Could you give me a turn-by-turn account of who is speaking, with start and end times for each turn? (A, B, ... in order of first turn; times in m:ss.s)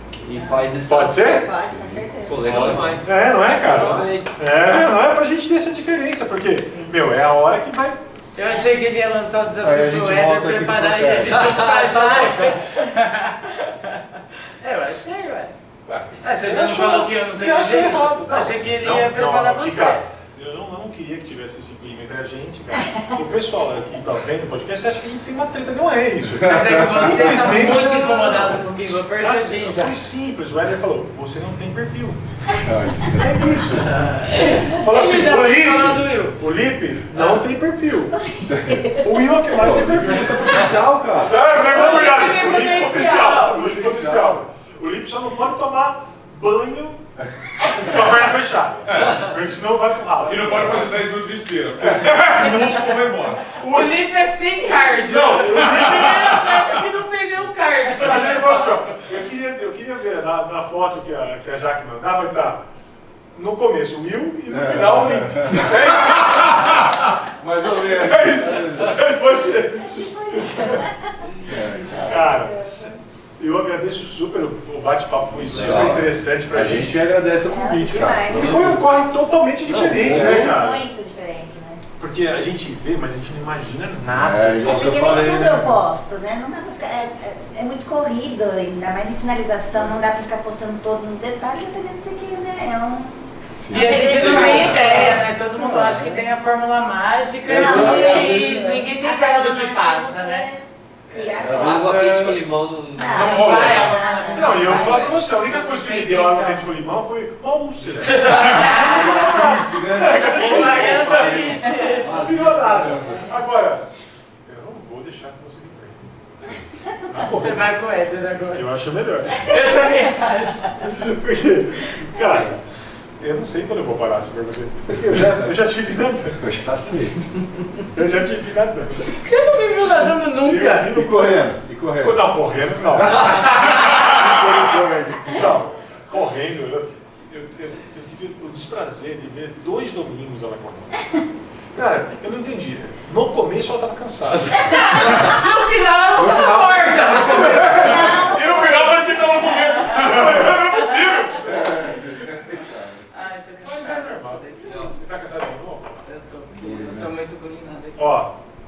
0:00.2-0:01.4 A
0:00.4-0:00.7 B
0:00.9-0:01.5 C
0:01.2-0:02.7 B
0:01.6-0:02.1 D
0:02.2-0:04.3 A
0:02.4-0:08.0 C
0:08.4-0:14.0 E
0:09.6-0:11.5 D
0:11.3-0:12.6 A
0:14.6-0:15.5 E
0:15.9-0:28.7 C
0:16.2-0:20.0 E
0:22.8-0:23.1 B
0:26.4-0:27.4 D
0:26.4-0:30.0 E
0:29.2-0:32.2 C
0:32.6-0:34.0 D
0:33.2-0:38.2 C
0:34.3-0:36.4 E
0:38.2-0:39.1 B
0:38.5-0:39.0 D
0:39.0-0:47.0 C
0:39.5-0:41.4 D
0:41.6-0:43.6 E
0:43.4-0:44.4 D
0:47.6-0:50.9 C
0:48.9-0:49.3 F
0:50.2-0:53.5 F
0:50.4-0:50.9 D
0:51.8-0:54.0 C
0:53.7-0:58.8 E
0:54.8-0:56.5 C
0:57.9-1:02.6 C
1:03.3-1:06.9 C
1:04.5-1:05.8 D
1:07.4-1:09.0 D
1:07.8-1:09.9 C
1:09.8-1:11.0 B
1:11.5-1:12.5 D
1:12.0-1:12.6 C
1:12.1-1:12.9 B
1:13.4-1:17.0 C
1:15.5-1:18.9 D
1:15.5-1:16.0 A
1:17.5-1:18.7 B
1:18.3-1:20.8 C
1:19.7-1:20.2 A
1:19.7-1:20.6 D
1:20.1-1:21.8 B
1:22.0-1:25.7 C
1:24.1-1:25.8 D
1:24.6-1:35.2 B
1:33.6-1:36.2 D
1:33.7-1:40.5 E
1:34.0-1:35.1 A
1:37.5-1:38.8 D
1:37.5-1:42.1 B
1:41.4-1:44.0 A
1:41.4-1:42.4 D
1:43.0-1:44.6 B
1:43.1-1:53.9 C
1:43.1-1:46.6 E
1:44.7-1:45.2 A
1:48.2-1:49.1 E
1:48.7-1:53.3 D
1:50.3-1:52.2 E
1:54.4-1:56.1 C
1:57.1-1:57.8 C
1:57.3-1:58.6 E
1:58.5-1:59.7 C
1:59.4-2:00.7 E
2:00.8-2:02.6 C
2:03.2-2:06.4 C
2:06.4-2:07.3 D
2:07.9-2:09.2 C
2:09.2-2:10.9 E
2:10.4-2:11.5 C
2:10.9-2:15.4 D
2:12.0-2:14.7 C
2:13.4-2:14.0 E
2:15.2-2:21.0 C
2:21.7-2:25.4 C
2:24.7-2:27.7 E
2:26.2-2:28.4 D
2:27.1-2:32.0 C
2:27.7-2:28.7 B
2:31.4-2:33.0 D
2:33.1-2:34.9 E
2:33.6-2:36.1 C
2:36.0-2:38.2 E
2:36.5-2:37.1 D
2:38.0-2:38.3 C